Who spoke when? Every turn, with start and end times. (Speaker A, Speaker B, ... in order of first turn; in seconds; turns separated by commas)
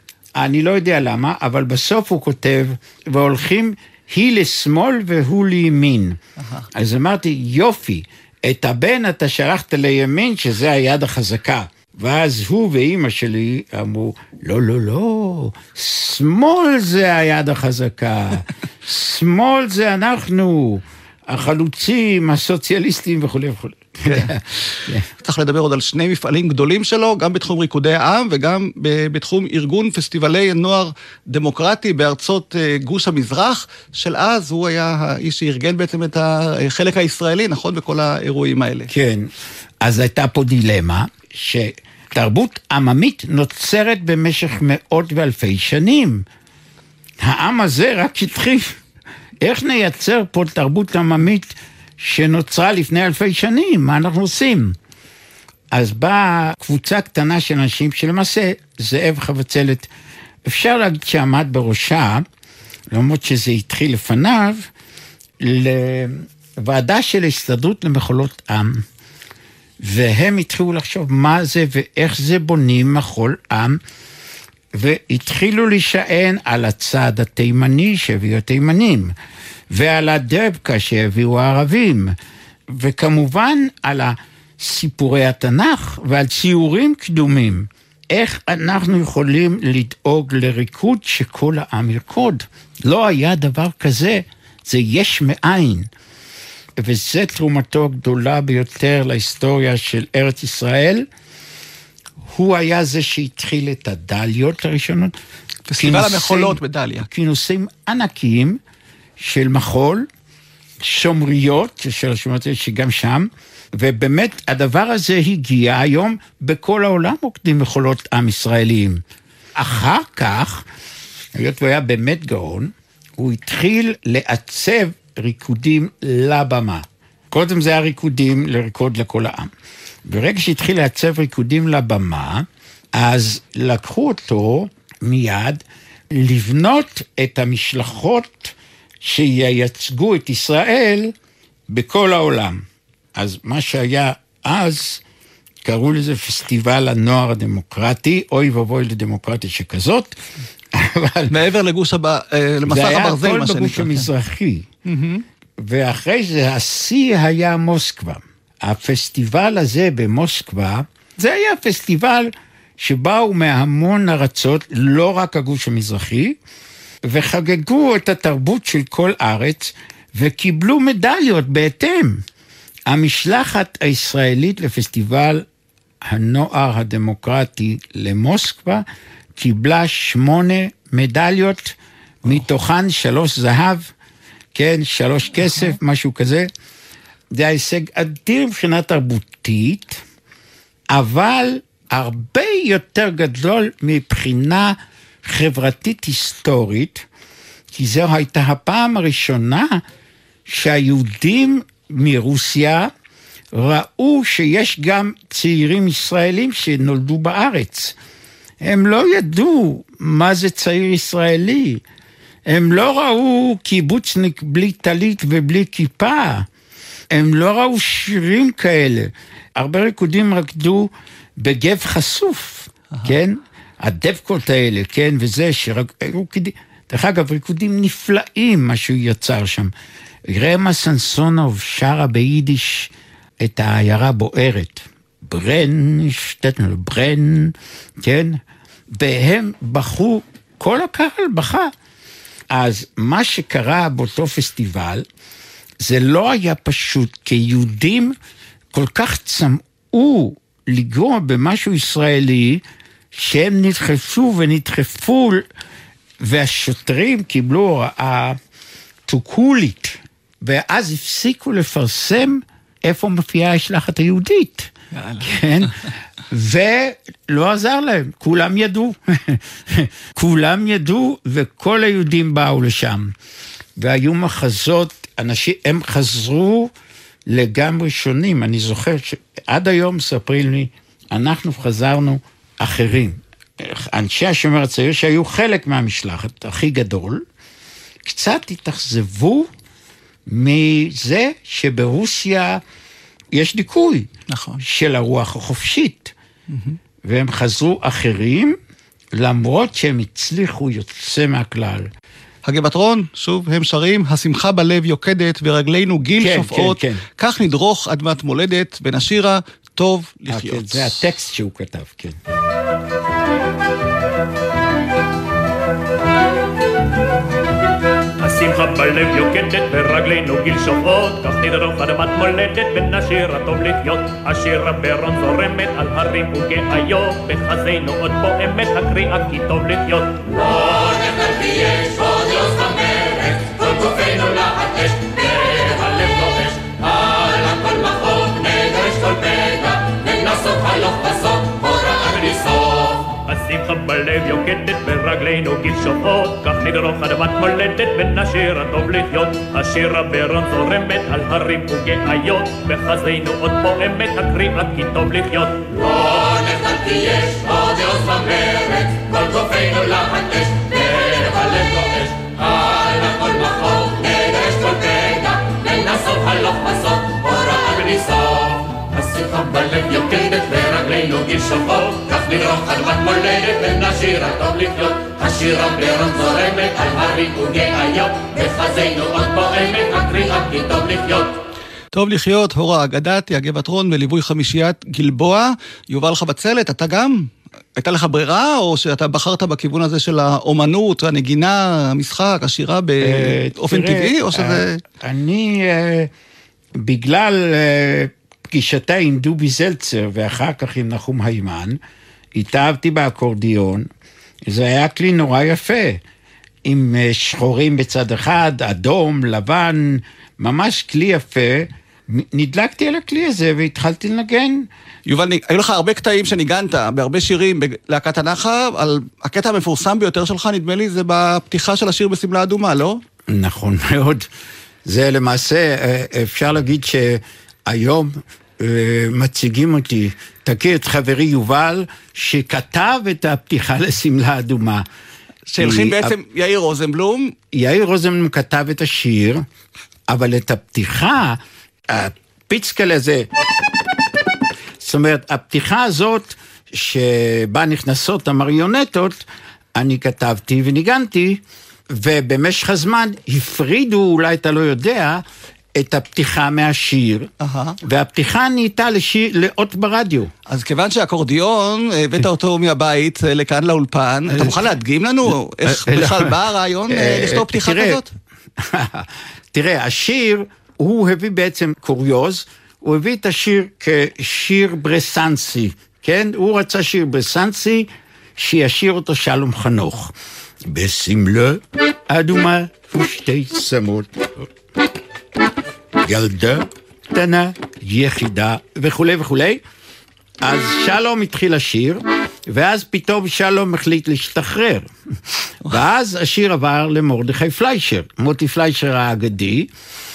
Speaker A: 0.4-6.2, Speaker B: 6.4-6.7, Speaker A: 6.7-25.1, Speaker B: 25.1-38.9, Speaker A: 38.9-39.3, Speaker A: 39.8-46.2, Speaker A: 47.2-48.7, Speaker A: 49.4-54.8, Speaker A: 55.7-59.9, Speaker A: 60.5-62.2, Speaker A: 62.9-64.7, Speaker A: 65.4-68.8, Speaker A: 69.8-73.8, Speaker A: 74.7-79.1, Speaker A: 79.7-82.2, Speaker A: 82.7-95.9, Speaker A: 96.8-101.1, Speaker A: 102.3-105.1, Speaker B: 105.7-107.1, Speaker A: 105.8-108.6, Speaker A: 109.2-110.1, Speaker A: 110.8-119.0, Speaker A: 119.6-120.7, Speaker A: 121.3-129.5, Speaker A: 130.1-141.1, Speaker A: 141.7-145.0, Speaker A: 145.6-150.2, Speaker A: 150.7-151.3, Speaker B: 151.3-154.1, Speaker A: 152.7-154.7, Speaker B: 154.9-155.2, Speaker A: 155.6-166.4, Speaker A: 167.1-172.2, Speaker A: 172.9-175.4, Speaker A: 176.0-178.8, Speaker A: 179.4-183.9, Speaker A: 184.5-186.5, Speaker A: 187.3-190.0, Speaker A: 190.9-197.1, Speaker A: 197.7-199.8, Speaker A: 200.5-202.9, Speaker A: 203.5-208.0, Speaker A: 208.6-211.8, Speaker A: 212.5-216.5, Speaker A: 217.1-229.7, Speaker A: 230.3-241.7, Speaker A: 242.5-245.1, Speaker A: 245.8-248.2, Speaker A: 248.7-255.5, Speaker A: 256.2-258.4, Speaker A: 259.1-265.8, Speaker B: 264.9-265.7, Speaker A: 266.3-273.1, Speaker A: 273.8-276.7, Speaker A: 277.3-287.2, Speaker A: 288.0-289.5, Speaker A: 290.3-292.6, Speaker A: 293.3-294.1, Speaker B: 294.3-294.6, Speaker A: 294.6-296.1, Speaker B: 296.5-296.8, Speaker A: 297.0-298.6, Speaker A: 299.1-301.9, Speaker B: 302.4-311.0, Speaker A: 306.2-307.0, Speaker A: 310.3-312.2, Speaker C: 318.2-330.4, Speaker D: 330.5-343.0, Speaker C: 343.2-355.7, Speaker D: 355.8-381.3, Speaker B: 381.9-394.8, Speaker A: 393.0-396.1, Speaker A: 396.8-401.8, Speaker A: 402.3-403.9, Speaker A: 404.4-406.0, Speaker A: 406.6-414.7, Speaker B: 415.1-423.0, Speaker A: 423.3-424.3, Speaker A: 424.9-434.9, Speaker B: 435.5-437.4, Speaker A: 435.6-436.1, Speaker A: 437.5-439.4, Speaker A: 440.1-443.3, Speaker A: 444.8-455.2, Speaker A: 455.8-457.3, Speaker B: 457.4-457.8, Speaker A: 457.8-460.3, Speaker B: 460.5-468.1, Speaker A: 464.3-464.6, Speaker A: 465.6-466.4, Speaker A: 466.9-468.0, Speaker A: 468.6-480.1, Speaker A: 480.6-484.5, Speaker A: 486.0-489.6, Speaker A: 490.4-494.9, Speaker A: 495.7-499.7